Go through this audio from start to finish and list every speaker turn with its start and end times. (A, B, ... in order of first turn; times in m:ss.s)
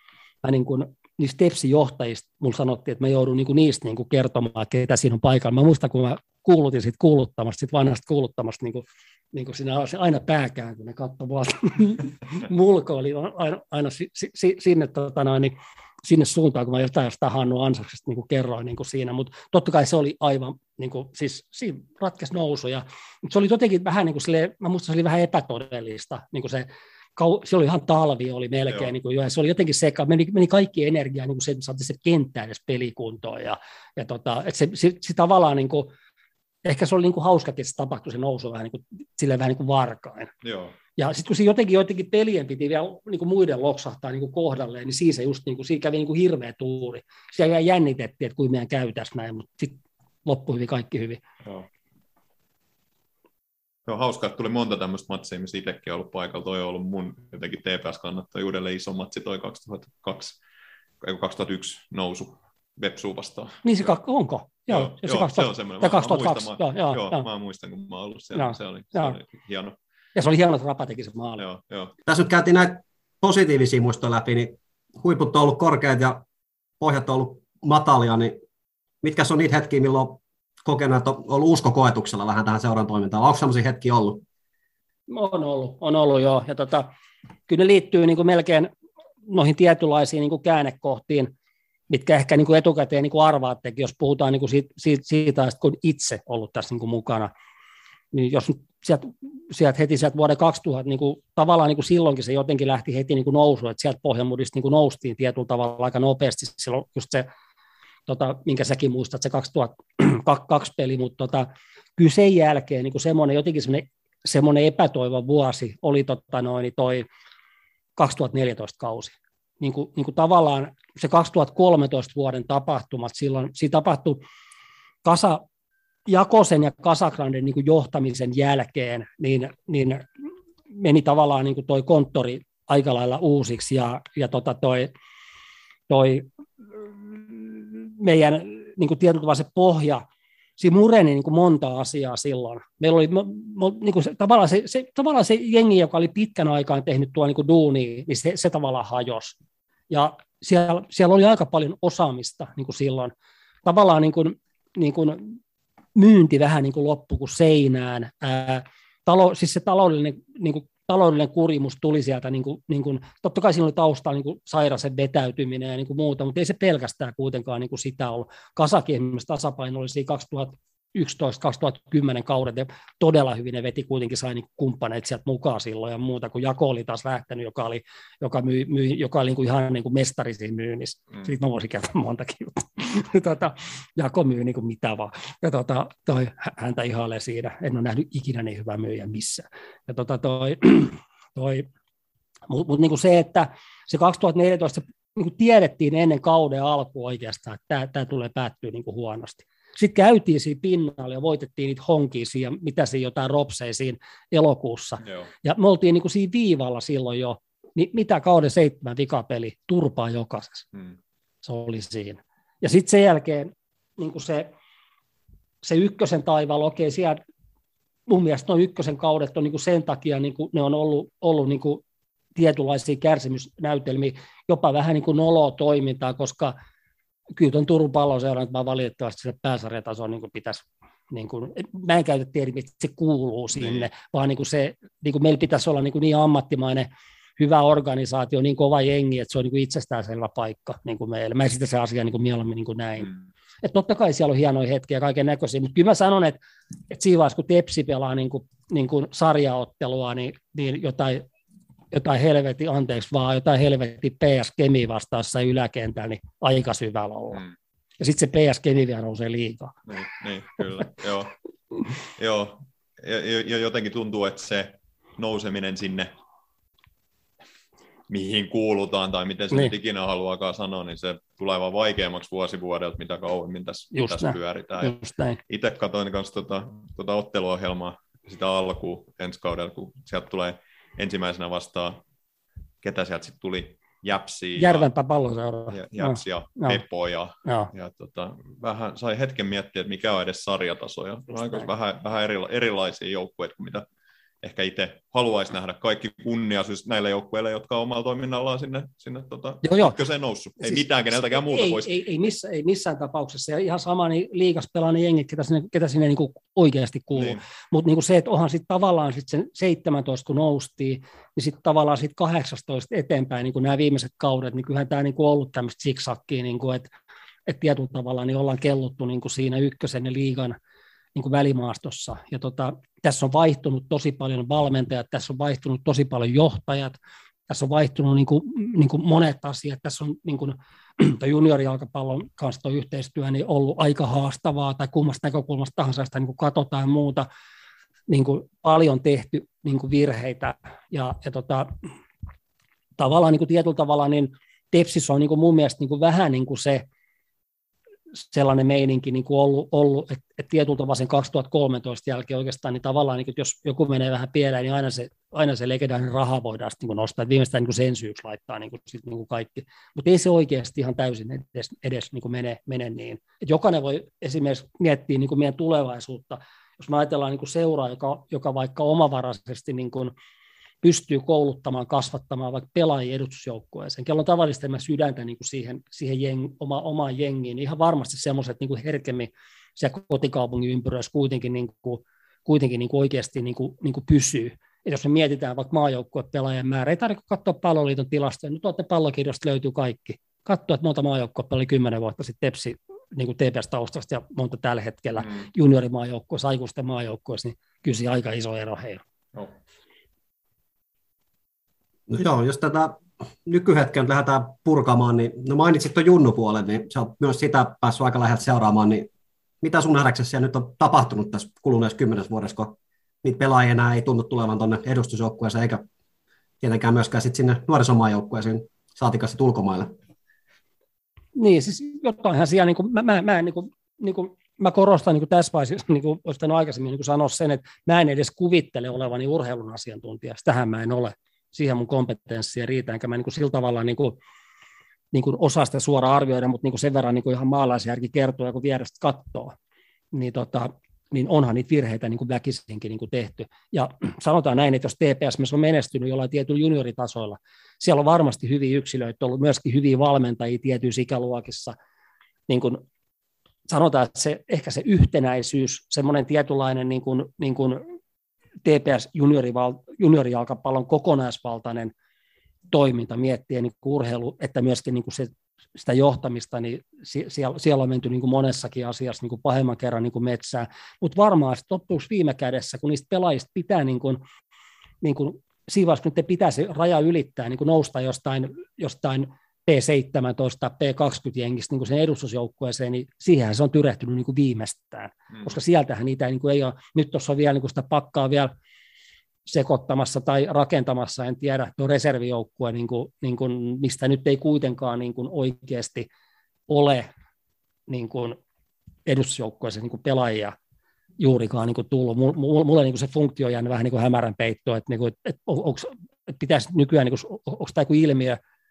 0:00.4-0:35.9 A
0:36.6-0:40.3 A
0:40.4-0:40.7 B
0:41.0-0:51.2 A
0:53.9-1:00.4 B
1:01.0-1:03.6 B
1:03.6-1:07.2 A
1:04.7-1:09.8 B
1:08.4-1:09.2 A
1:10.1-1:11.4 A
1:11.4-1:11.9 B
1:12.1-1:16.2 C
1:16.8-1:18.4 C
1:19.0-1:24.2 C
1:25.1-1:26.9 A
1:27.5-1:28.7 A
1:29.3-1:31.3 A
1:31.9-1:37.3 A
1:38.1-1:47.3 A
1:48.1-1:57.1 A
1:58.0-2:04.2 A
2:05.0-2:05.4 A
2:06.1-2:10.1 A
2:10.7-2:14.9 A
2:15.9-2:20.0 A
2:20.6-2:29.4 A
2:29.9-2:33.1 A
2:33.6-2:35.4 A
2:36.0-3:11.6 A
3:12.5-3:30.7 A
3:25.0-3:25.3 B
3:31.4-3:34.5 A
3:35.6-3:37.2 A
3:38.1-3:41.8 A
3:42.4-3:46.6 A
3:47.4-4:03.1 A
4:03.6-4:11.3 A
4:11.9-4:17.4 A
4:18.0-4:19.8 A
4:19.9-4:21.4 B
4:22.1-4:26.1 B
4:28.1-4:35.0 B
4:33.9-4:35.4 A
4:35.5-4:42.0 B
4:42.8-4:44.9 B
4:44.6-4:46.8 A
4:45.7-4:53.9 B
4:47.4-4:47.7 A
4:54.4-5:01.9 B
4:59.6-5:00.0 A
5:01.4-5:16.9 A
5:07.2-5:07.4 B
5:17.4-5:20.6 A
5:21.2-5:27.0 A
5:27.5-5:37.3 A
5:38.1-5:41.7 A
5:43.0-5:46.9 A
5:48.3-6:10.1 A
6:10.8-6:39.0 A
6:42.1-6:49.1 C
6:49.6-6:55.9 C
6:56.6-6:59.9 C
7:01.4-7:14.2 A
7:15.1-7:19.6 A
7:20.1-7:31.7 A
7:32.5-7:32.8 A
7:33.7-7:37.9 A
7:38.6-7:41.9 A
7:42.7-7:54.2 A
7:55.0-8:08.5 A
8:09.4-8:16.1 A
8:16.7-8:17.1 A
8:17.9-8:18.4 A
8:19.1-8:20.6 A
8:21.2-8:28.4 A